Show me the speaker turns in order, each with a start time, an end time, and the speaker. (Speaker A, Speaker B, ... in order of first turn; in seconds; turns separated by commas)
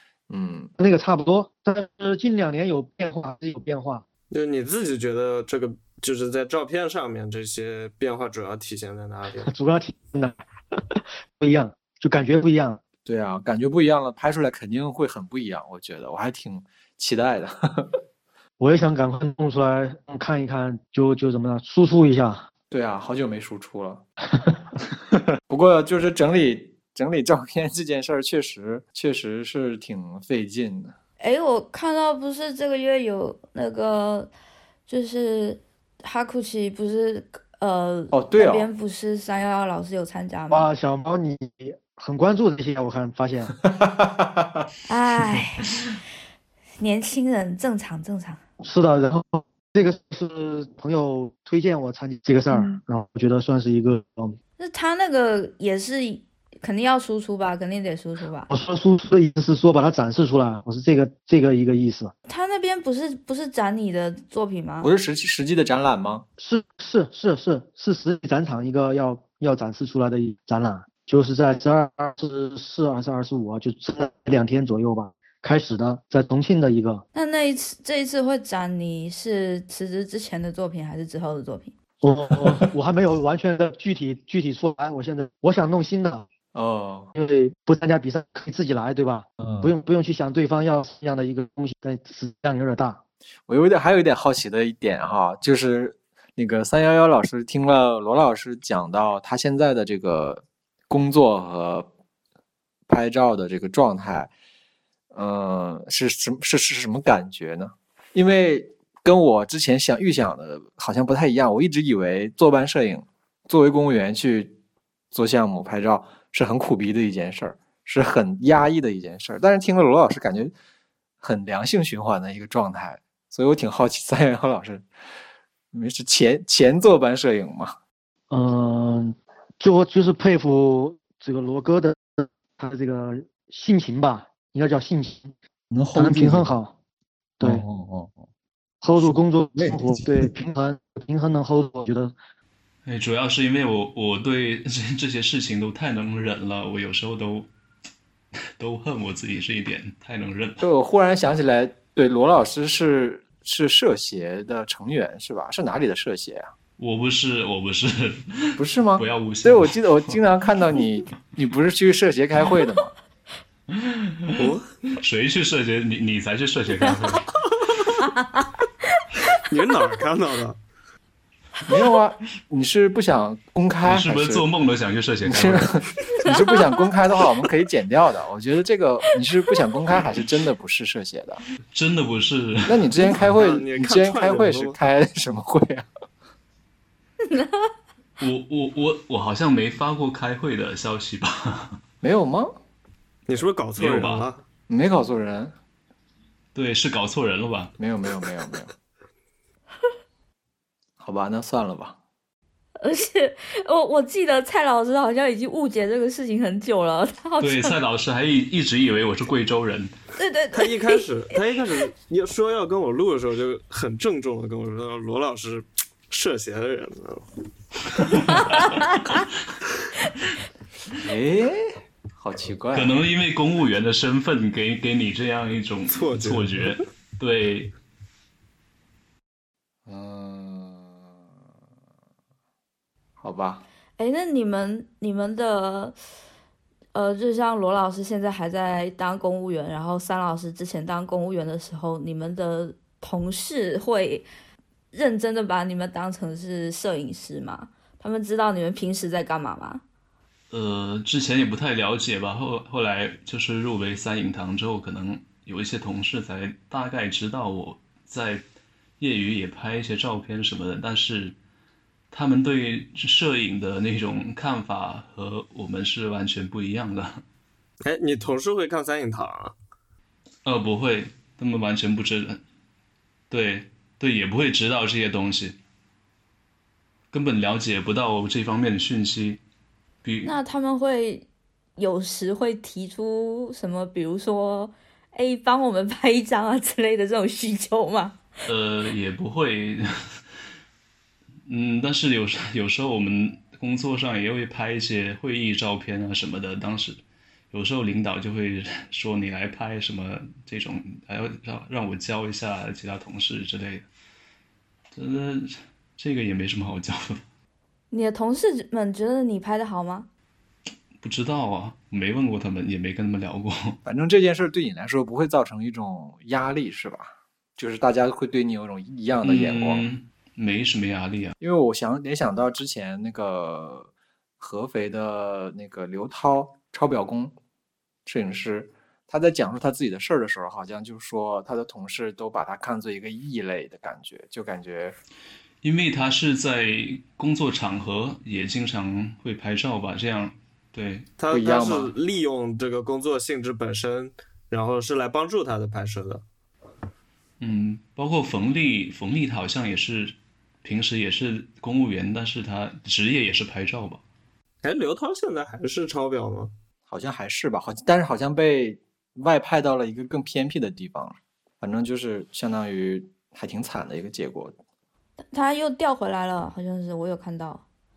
Speaker A: 0.3-0.7, Speaker B: 0.8-4.0, Speaker C: 4.3-9.5, Speaker B: 9.4-10.4, Speaker B: 11.4-12.8, Speaker A: 13.1-17.9, Speaker B: 18.6-22.4, Speaker A: 22.7-24.0, Speaker A: 25.5-30.9, Speaker D: 31.2-34.3, Speaker D: 34.9-40.7, Speaker A: 38.1-38.7, Speaker B: 40.5-43.5, Speaker D: 44.9-45.8, Speaker D: 46.8-48.4, Speaker B: 48.6-54.4, Speaker D: 54.6-58.5, Speaker B: 58.5-62.1, Speaker D: 62.3-64.9, Speaker A: 64.8-66.2, Speaker B: 66.4-77.0, Speaker D: 77.1-81.7, Speaker B: 82.0-86.3, Speaker A: 86.5-87.1, Speaker B: 87.1-93.0, Speaker E: 89.4-89.7, Speaker A: 93.5-101.9, Speaker A: 102.9-104.3, Speaker A: 105.1-114.6, Speaker A: 115.1-120.5, Speaker A: 121.2-124.8, Speaker A: 125.7-127.7, Speaker B: 128.3-135.3, Speaker E: 135.7-136.0, Speaker A: 135.8-136.5, Speaker B: 135.9-136.7, Speaker E: 137.4-138.3, Speaker B: 138.8-142.1, Speaker E: 139.0-140.3, Speaker F: 142.8-147.5, Speaker F: 148.6-150.7, Speaker A: 150.6-156.5, Speaker F: 156.8-160.2, Speaker A: 158.6-162.9, Speaker F: 163.7-167.3, Speaker C: 164.4-164.7, Speaker C: 169.5-170.6, Speaker A: 171.7-174.5, Speaker F: 173.8-175.9, Speaker A: 175.2-181.4, Speaker D: 176.3-176.8, Speaker F: 181.7-182.9, Speaker A: 182.7-185.9, Speaker C: 183.1-184.8, Speaker D: 187.3-187.7, Speaker F: 188.2-191.8, Speaker A: 192.0-192.6, Speaker C: 193.3-194.4, Speaker F: 193.8-194.2, Speaker A: 194.7-195.5, Speaker F: 196.5-197.7, Speaker A: 197.8-198.7, Speaker A: 201.0-202.0, Speaker D: 202.8-207.8, Speaker F: 207.4-209.9, Speaker D: 210.2-211.0, Speaker C: 210.5-217.2, Speaker F: 218.1-218.7, Speaker A: 221.0-223.0, Speaker F: 222.7-227.7, Speaker C: 225.9-226.8, Speaker A: 229.8-231.1, Speaker A: 233.2-233.6, Speaker D: 234.0-235.9, Speaker D: 236.9-244.3, Speaker D: 244.9-249.8, Speaker F: 250.5-258.4, Speaker F: 259.0-261.4, Speaker F: 262.1-267.2, Speaker C: 267.8-269.6, Speaker F: 270.4-272.4, Speaker F: 273.3-275.6, Speaker F: 277.1-279.4, Speaker F: 280.0-280.3, Speaker D: 280.2-288.2, Speaker F: 288.5-290.2, Speaker F: 291.4-297.0, Speaker F: 297.5-303.9, Speaker F: 304.9-307.2, Speaker D: 307.9-310.1, Speaker F: 311.0-313.8, Speaker A: 313.9-319.9, Speaker F: 319.2-321.3, Speaker A: 321.4-327.4, Speaker A: 328.1-334.9, Speaker F: 335.6-341.1, Speaker C: 341.2-346.2, Speaker A: 341.3-341.9, Speaker F: 347.4-354.0, Speaker C: 354.6-356.5, Speaker A: 356.9-364.5, Speaker D: 365.3-367.6